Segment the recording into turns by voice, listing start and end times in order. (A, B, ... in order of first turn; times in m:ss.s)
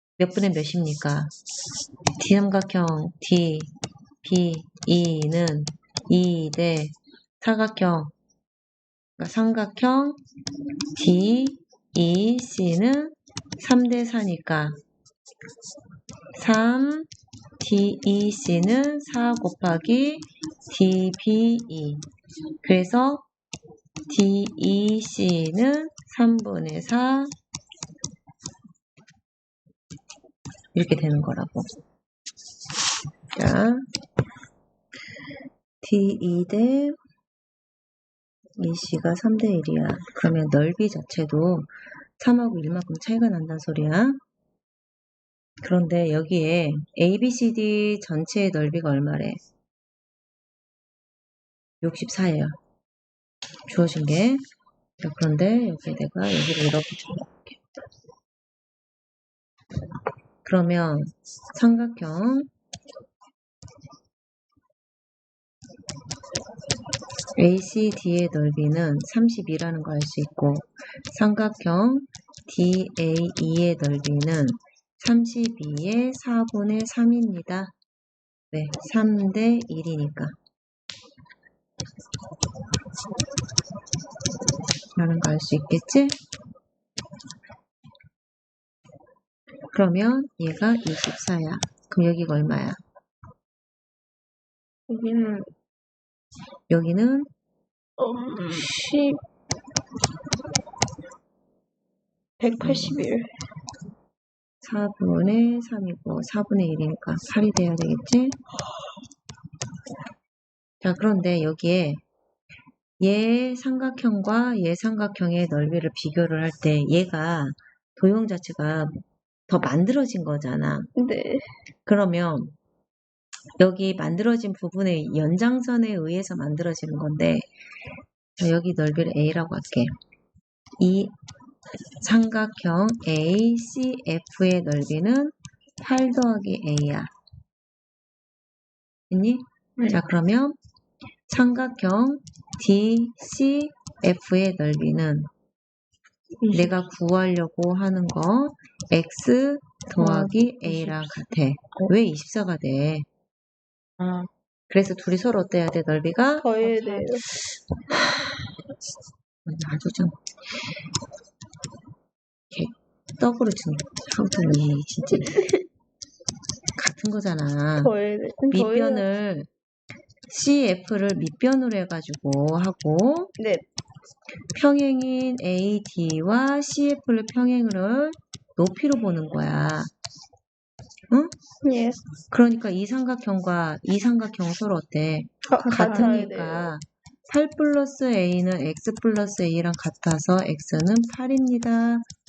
0:00.2-0:01.3 A
0:02.2-0:03.7 A
0:04.2-0:08.1 A
0:09.2-0:10.2 A
0:11.0-0:14.8 A
0:16.4-0:17.1 A
0:17.6-0:22.0 A
0:22.6-0:23.3 A
0:24.1-0:27.3 A
0:30.7-0:31.7 A
0:33.4-0:33.8 A
0:35.8-0:37.0 A
0:38.6-0:44.2 A
0:45.6-0:49.4 A
0:51.8-0:52.5 A
0:53.7-0:54.4 A
0:55.0-0:57.6 A
1:00.4-1:02.5 A
1:07.4-1:17.7 A
1:18.5-1:20.3 A
1:25.0-1:26.2 A
1:29.7-1:32.8 A
1:34.9-1:35.5 B
1:36.7-1:37.3 A
1:38.0-1:38.3 C
1:38.1-1:39.2 B
1:42.4-1:43.3 C
1:42.6-1:43.0 A
1:44.6-1:48.4 A
1:50.8-1:52.0 A
1:53.0-2:00.9 A
2:01.0-2:01.5 C
2:01.9-2:02.6 A
2:03.6-2:07.5 A
2:08.4-2:09.9 A
2:10.8-2:11.1 A
2:12.0-2:17.1 A
2:19.1-2:20.6 A
2:21.3-2:25.3 A
2:26.4-2:26.7 B
2:26.5-2:33.1 A
2:30.0-2:31.1 B
2:34.0-2:34.3 B
2:34.7-2:36.5 A
2:36.4-2:37.3 C
2:36.6-2:37.2 B
2:39.4-2:40.2 A
2:42.5-2:45.4 A
2:46.8-2:47.9 A
2:47.8-2:49.0 C
2:48.5-2:49.5 A
2:50.3-2:53.3 A
2:53.4-2:53.6 C
2:54.6-2:59.9 A
3:01.6-3:02.0 C
3:02.3-3:12.0 A
3:05.5-3:06.7 C
3:05.6-3:06.3 B